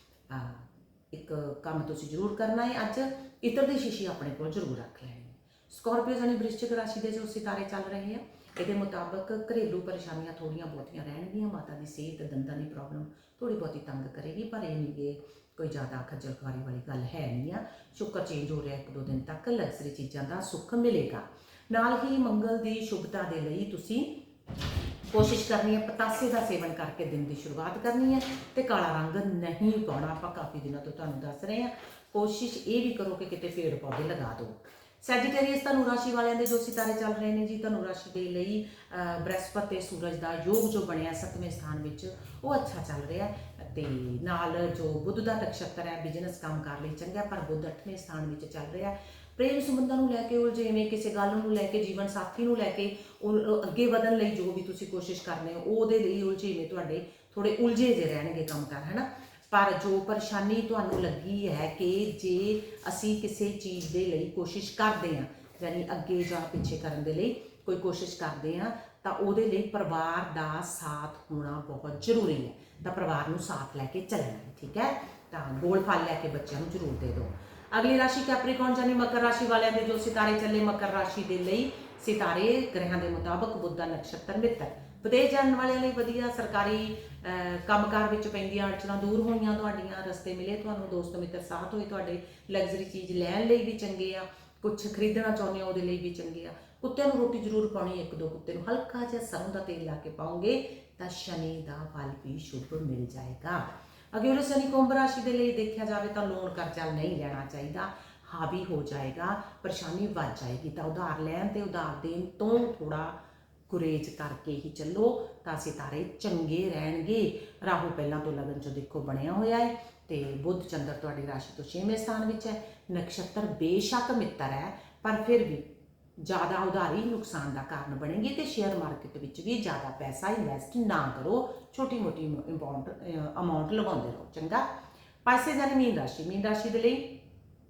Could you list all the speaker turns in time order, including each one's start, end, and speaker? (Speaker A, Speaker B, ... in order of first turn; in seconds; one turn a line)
Speaker A: 0.3-24.3
Speaker A: 25.1-113.2
Speaker A: 113.7-125.7
Speaker A: 126.2-134.6
Speaker A: 135.2-137.2